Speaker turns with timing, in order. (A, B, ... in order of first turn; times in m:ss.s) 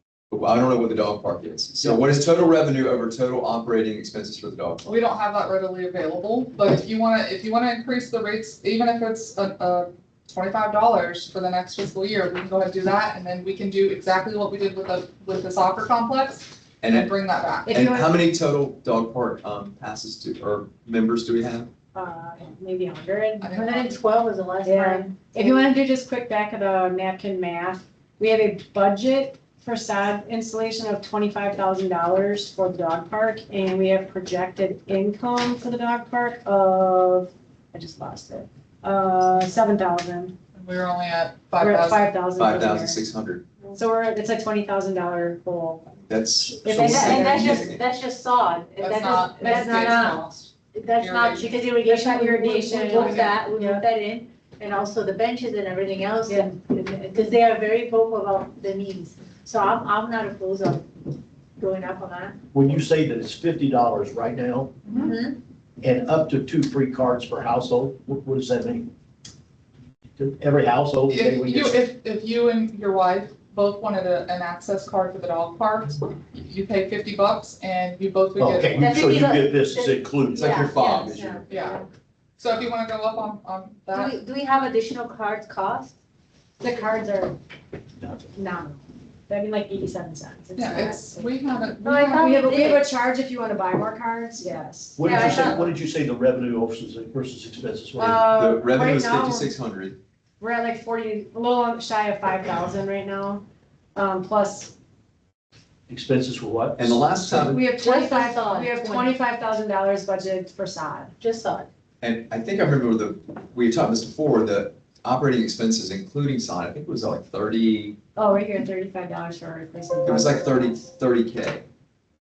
0:00.3-0:04.9 A
0:04.8-0:17.7 B
0:16.8-0:17.1 A
0:17.6-0:18.2 C
0:17.7-0:21.7 A
0:21.9-0:23.5 C
0:23.4-0:24.0 B
0:23.4-0:25.7 D
0:24.6-0:40.3 C
0:40.5-0:42.1 B
0:41.6-0:43.0 C
0:42.4-0:43.4 A
0:43.7-0:45.9 C
0:46.0-0:47.8 A
0:46.5-0:47.7 C
0:46.7-1:01.0 D
0:48.8-0:51.6 B
0:49.2-0:50.2 C
0:51.8-0:53.8 C
0:52.8-0:53.4 B
0:56.3-0:56.5 C
1:01.6-1:02.4 D
1:02.5-1:04.8 E
1:04.9-1:05.4 D
1:05.8-1:08.9 E
1:10.2-1:11.9 E
1:11.1-1:19.0 B
1:18.4-1:20.6 E
1:18.8-1:21.4 D
1:20.3-1:21.8 A
1:21.5-1:21.8 B
1:22.4-1:24.1 B
1:23.9-1:25.9 D
1:26.6-1:27.4 C
1:28.3-1:31.3 C
1:30.6-1:32.1 B
1:31.8-1:32.9 D
1:31.8-1:35.6 C
1:35.0-1:38.3 E
1:35.0-1:35.6 D
1:35.1-1:35.6 B
1:38.0-1:39.5 C
1:38.3-1:40.0 A
1:40.4-1:43.4 C
1:43.9-1:44.7 C
1:45.9-1:47.6 E
1:46.8-1:47.6 A
1:47.5-1:51.1 C
1:47.8-1:49.1 D
1:51.2-1:51.7 D
1:52.0-1:58.0 A
1:58.2-2:00.8 C
2:00.0-2:01.6 A